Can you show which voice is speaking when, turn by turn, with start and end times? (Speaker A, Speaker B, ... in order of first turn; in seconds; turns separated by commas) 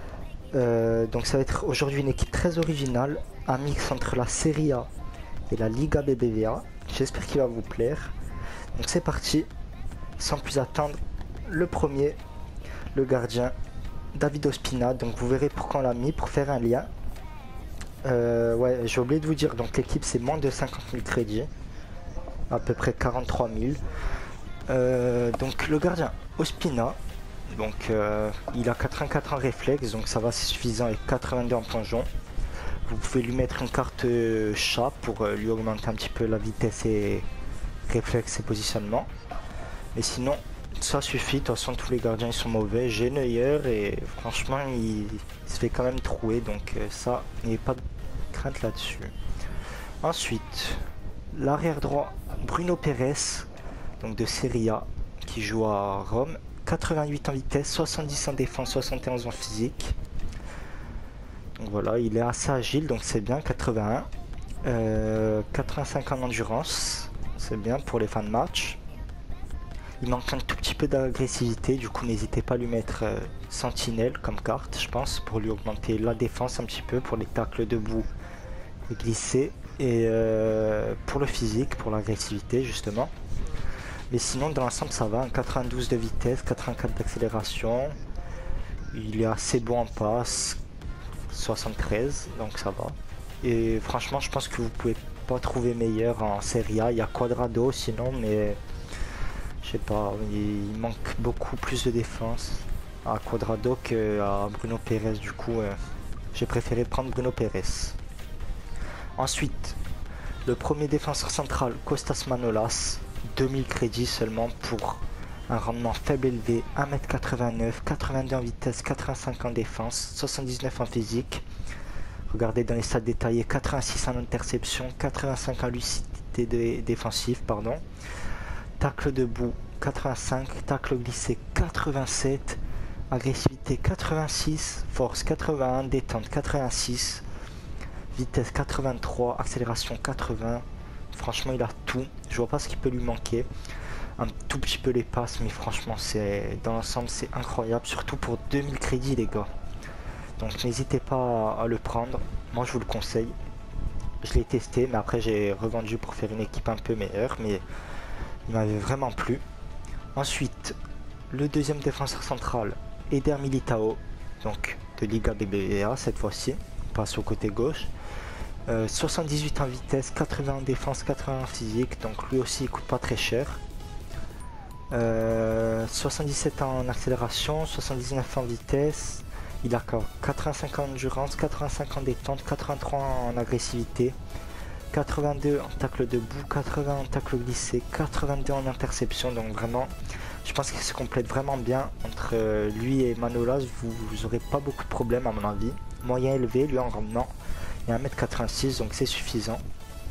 Speaker A: 0.5-4.9, Speaker A: 5.5-8.1, Speaker A: 8.8-9.5, Speaker A: 10.2-12.2, Speaker A: 12.9-13.6, Speaker A: 14.1-16.9, Speaker A: 18.0-21.5, Speaker A: 22.5-23.8, Speaker A: 24.7-27.0, Speaker A: 27.5-32.1, Speaker A: 32.9-37.3, Speaker A: 37.9-39.1, Speaker A: 40.0-49.1, Speaker A: 50.0-53.5, Speaker A: 54.0-60.0, Speaker A: 61.6-64.1, Speaker A: 64.6-68.8, Speaker A: 70.0-78.1, Speaker A: 78.9-83.1, Speaker A: 84.1-88.0, Speaker A: 88.9-90.6, Speaker A: 91.3-98.6, Speaker A: 99.6-105.8, Speaker A: 106.3-108.0, Speaker A: 109.2-109.8, Speaker A: 110.5-121.5, Speaker A: 122.3-127.8, Speaker A: 128.8-137.2, Speaker A: 138.1-143.5, Speaker A: 144.2-149.5, Speaker A: 150.4-153.4, Speaker A: 154.2-157.6, Speaker A: 158.5-159.4, Speaker A: 160.2-160.8, Speaker A: 161.3-167.9, Speaker A: 168.7-173.6, Speaker A: 174.9-184.2, Speaker A: 184.9-197.3, Speaker A: 197.9-199.6